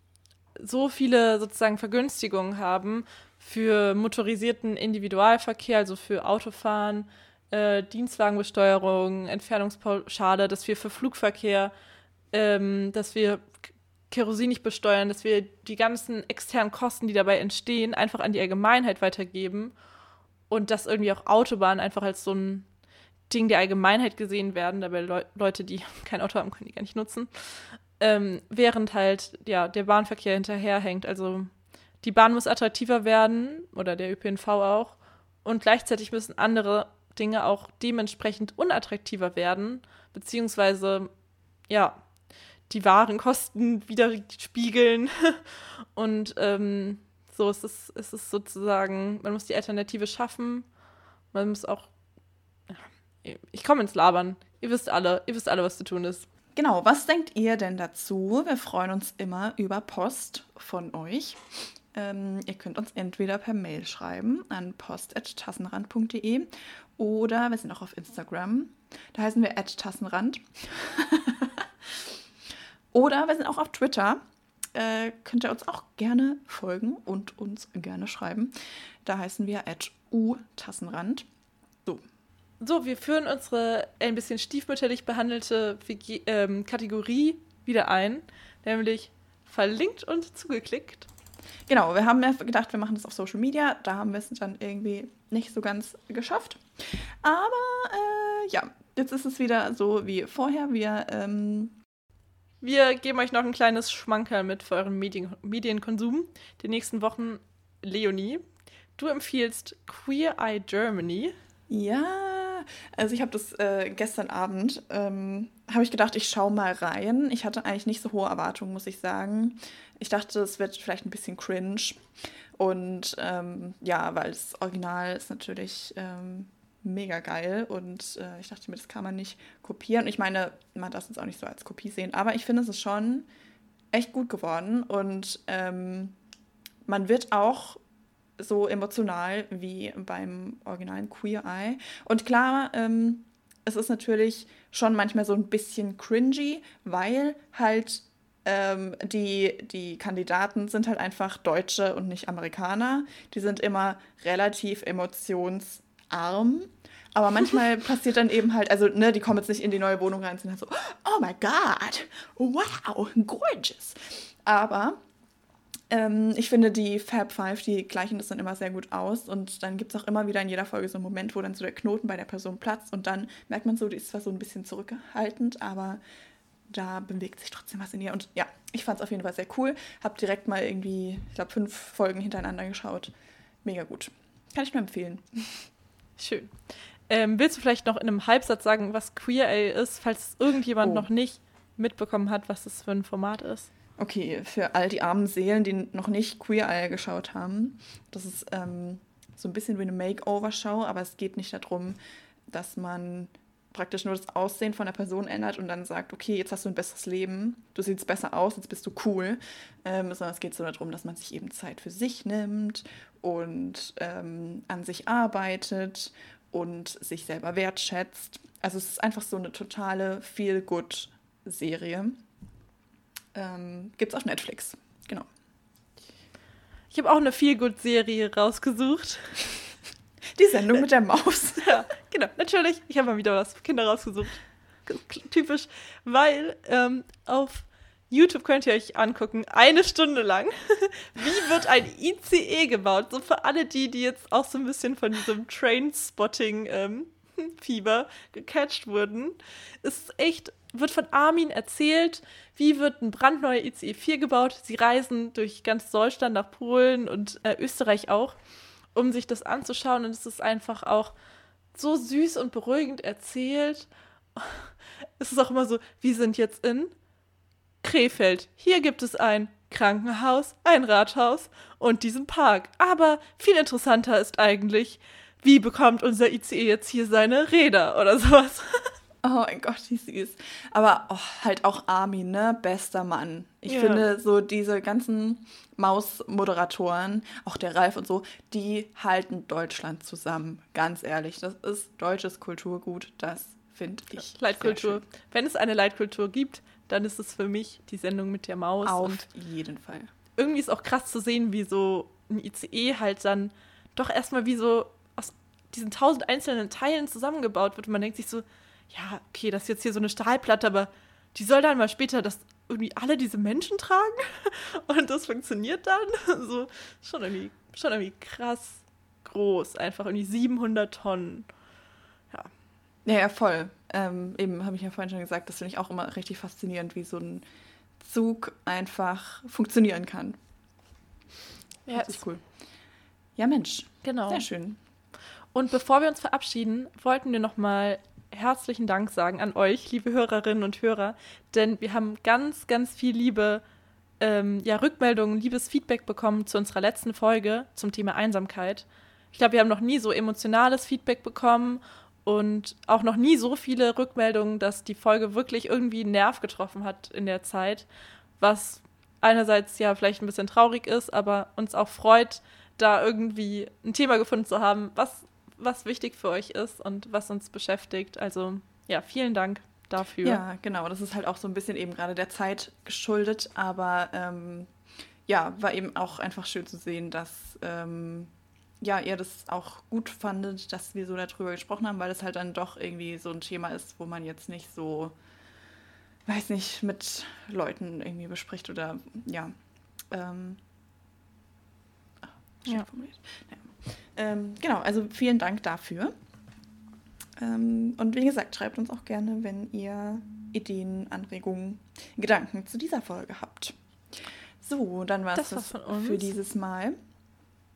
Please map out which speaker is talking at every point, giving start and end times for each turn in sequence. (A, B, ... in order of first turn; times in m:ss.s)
0:00.6-0:11.7 A
0:12.3-0:13.6 A
0:14.1-0:19.7 A
0:20.5-0:22.7 A
0:23.3-0:31.5 A
0:32.0-0:41.1 A
0:41.7-0:42.0 A
0:42.7-0:50.7 A
0:51.3-0:51.9 A
0:52.7-0:56.3 A
0:56.5-1:12.2 B
1:12.9-1:14.2 B
1:14.7-1:18.5 B
1:19.0-1:21.3 B
1:22.6-1:31.1 A
1:31.7-1:41.8 B
1:42.6-1:48.4 A
1:49.0-1:51.3 A
1:51.7-2:13.3 B
2:13.9-2:16.2 B
2:16.8-2:17.8 B
2:18.4-2:45.0 B
2:45.9-2:56.0 B
2:56.7-3:03.1 B
3:03.6-3:05.7 B
3:06.2-3:06.5 A
3:07.1-3:13.7 A
3:10.8-3:11.1 B
3:14.0-3:22.0 B
3:22.5-3:42.2 B
3:43.3-3:45.3 B
3:46.9-3:49.4 A
3:50.4-3:51.8 B
3:51.6-4:18.4 A
4:18.9-4:21.1 A
4:21.7-4:26.9 A
4:27.8-4:38.9 A
4:39.2-4:55.0 B
4:43.7-4:44.0 A
4:54.2-4:59.2 A
4:58.8-5:00.1 B
5:00.4-5:21.5 A
5:23.0-5:27.4 B
5:28.0-5:30.4 B
5:31.9-5:32.2 A
5:31.9-5:32.4 B
5:33.4-5:34.8 B
5:34.0-5:34.4 A
5:35.5-5:43.6 A
5:44.2-5:57.9 A
5:58.4-6:10.4 A
6:10.2-6:14.7 B
6:15.3-6:25.2 B
6:26.2-6:29.5 B
6:30.1-6:30.6 B
6:32.6-6:36.1 B
6:37.4-6:47.0 B
6:45.3-6:46.3 A